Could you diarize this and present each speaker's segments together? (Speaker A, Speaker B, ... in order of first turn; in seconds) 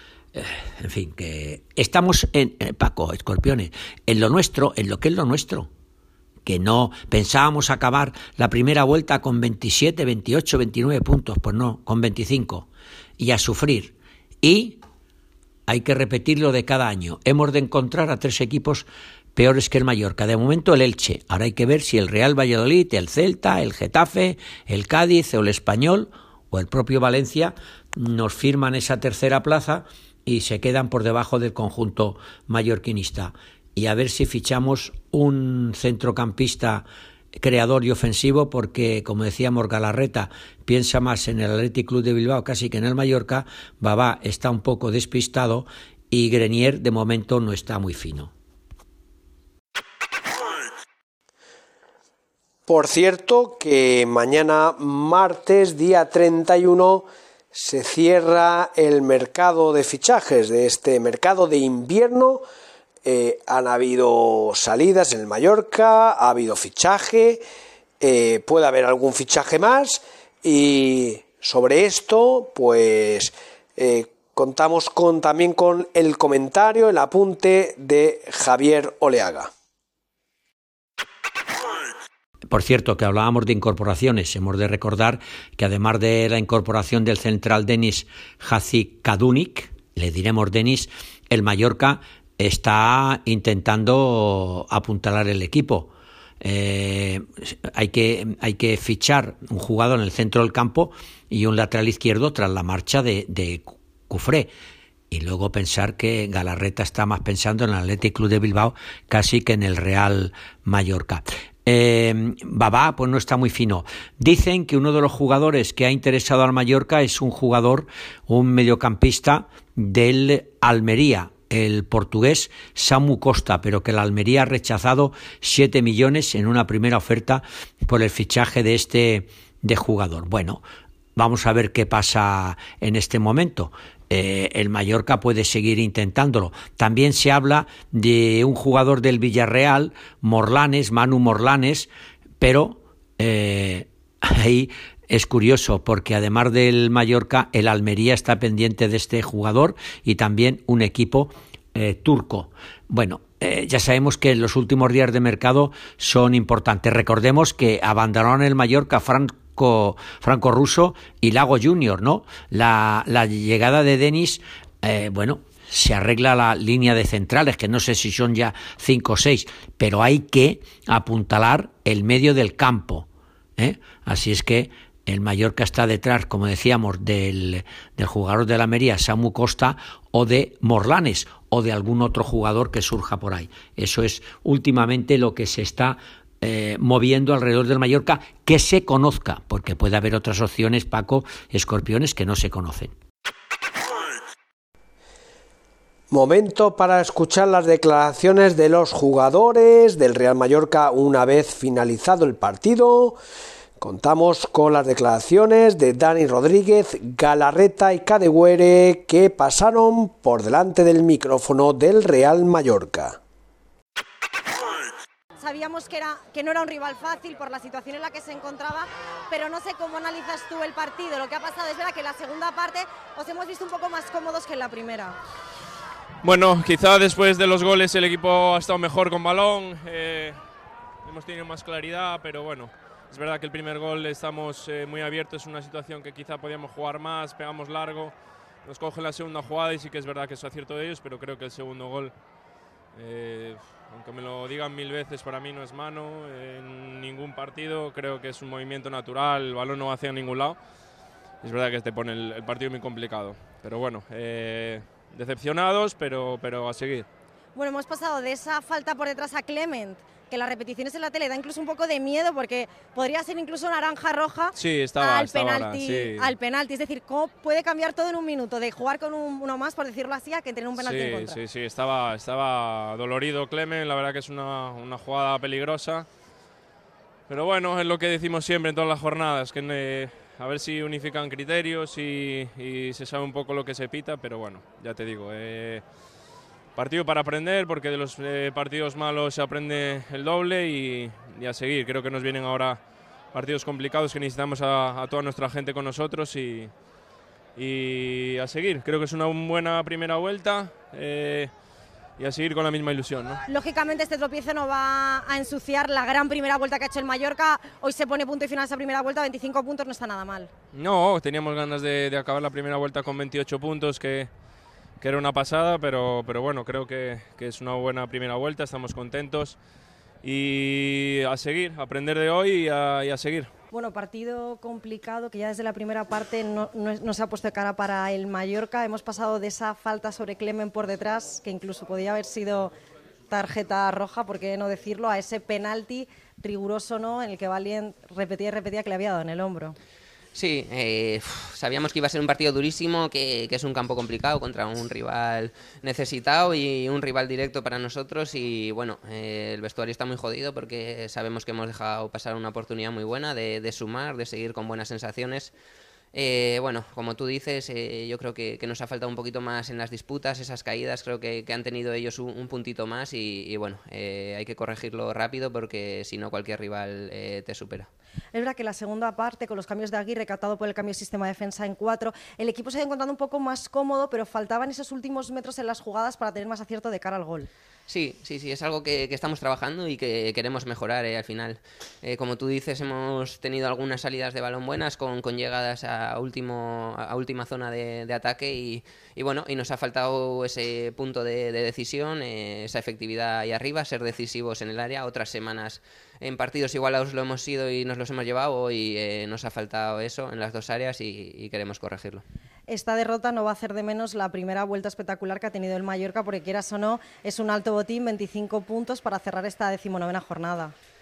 Speaker A: 0.3-5.7, 6.4-12.7, 13.2-14.8, 15.7-36.8, 37.4-48.3, 82.5-104.5, 105.1-130.6, 131.2-141.9, 142.4-192.9
Speaker B: 52.7-62.4, 63.0-67.4, 68.0-79.5, 196.1-203.2, 203.8-213.2
Speaker C: 215.4-225.2, 257.5-271.4, 303.5-310.5, 323.7-332.7, 333.3-339.8, 368.3-377.5, 402.7-410.7
Speaker D: 226.2-230.4, 231.0-242.2, 242.9-250.6, 251.4-257.1, 264.5-266.3, 270.8-276.1, 277.3-285.9, 286.7-296.7, 297.6-301.6, 302.1-303.4, 310.7-314.3, 315.0-319.6, 320.2-323.5
Speaker E: 340.3-355.5, 356.1-367.9, 377.9-402.2